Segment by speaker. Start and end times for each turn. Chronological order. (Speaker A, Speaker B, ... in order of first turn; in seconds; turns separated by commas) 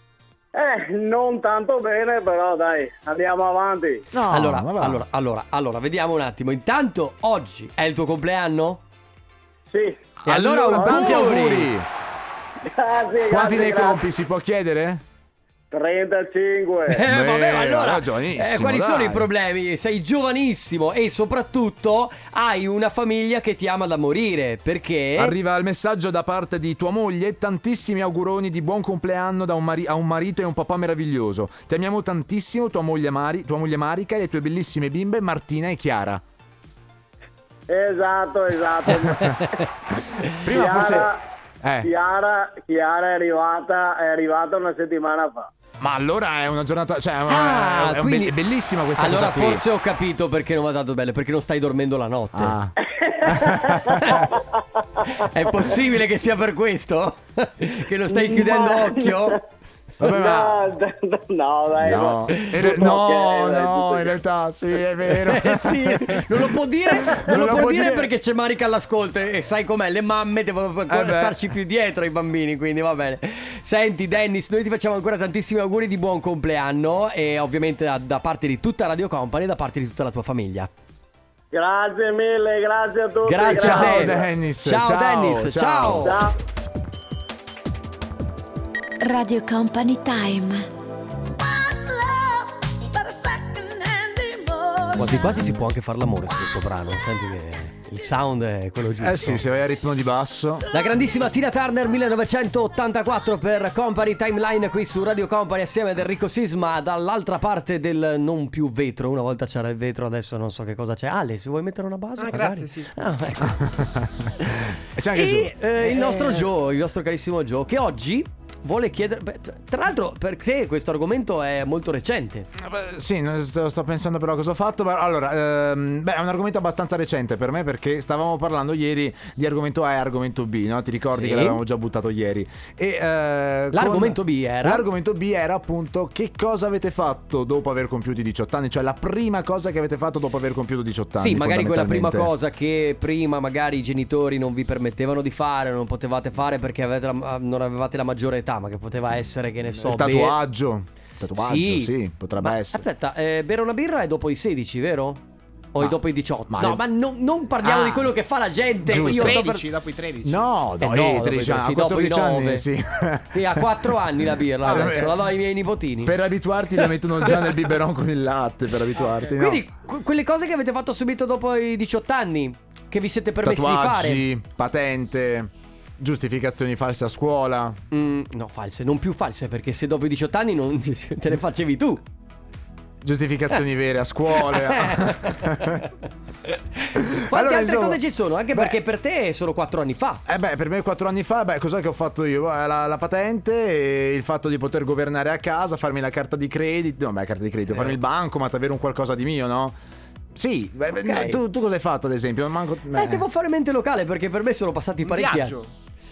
Speaker A: 0.5-4.0, Speaker B: 4.1-5.0, Speaker C: 4.3-8.8, Speaker A: 9.7-10.1, Speaker B: 10.2-11.9, Speaker C: 10.2-11.7, Speaker A: 10.7-11.2, Speaker A: 12.7-14.0, Speaker B: 13.3-15.0, Speaker A: 15.7-17.0, Speaker C: 16.9-25.4, Speaker B: 17.0-19.3, Speaker B: 25.2-36.2, Speaker A: 37.7-39.3, Speaker C: 39.0-39.7, Speaker B: 40.4-41.1, Speaker A: 40.5-41.2, Speaker B: 41.6-41.9, Speaker A: 41.8-45.5, Speaker B: 45.8-49.6, Speaker C: 47.3-48.4, Speaker C: 49.0-52.6, Speaker B: 52.3-54.3, Speaker A: 53.0-54.4, Speaker C: 53.9-54.3, Speaker C: 55.1-59.4, Speaker A: 58.1-59.4, Speaker B: 60.0-60.6, Speaker A: 60.0-64.2, Speaker B: 61.8-68.1, Speaker C: 62.3-62.8, Speaker C: 65.2-80.7, Speaker B: 70.9-71.5, Speaker A: 81.5-84.2, Speaker C: 83.3-86.3, Speaker B: 83.5-86.2, Speaker A: 86.0-86.3, Speaker D: 89.0-90.7, Speaker D: 91.3-95.5, Speaker C: 95.0-99.4, Speaker B: 99.0-100.7, Speaker C: 100.7-113.8, Speaker E: 112.2-113.0, Speaker B: 113.8-114.1, Speaker C: 114.4-122.5, Speaker B: 114.9-116.4, Speaker B: 122.6-142.3, Speaker C: 131.1-131.6, Speaker C: 133.7-134.9, Speaker C: 141.2-150.4, Speaker B: 149.8-152.8, Speaker C: 151.4-155.2, Speaker C: 155.7-159.7, Speaker B: 156.5-156.8, Speaker B: 157.6-158.1, Speaker B: 158.8-159.5, Speaker E: 158.9-160.6, Speaker B: 160.2-163.8, Speaker C: 160.8-162.7, Speaker C: 163.3-166.1, Speaker B: 164.6-165.2, Speaker B: 166.0-169.7, Speaker C: 167.2-167.5, Speaker C: 169.3-174.2, Speaker B: 173.4-177.8, Speaker C: 177.9-182.0, Speaker B: 183.0-185.9, Speaker C: 184.4-185.9, Speaker C: 186.5-190.2, Speaker B: 187.0-188.0, Speaker B: 188.5-188.8, Speaker B: 190.3-199.8, Speaker C: 197.7-198.0, Speaker B: 200.3-203.3, Speaker C: 201.0-201.4, Speaker C: 202.9-205.6, Speaker E: 205.0-205.7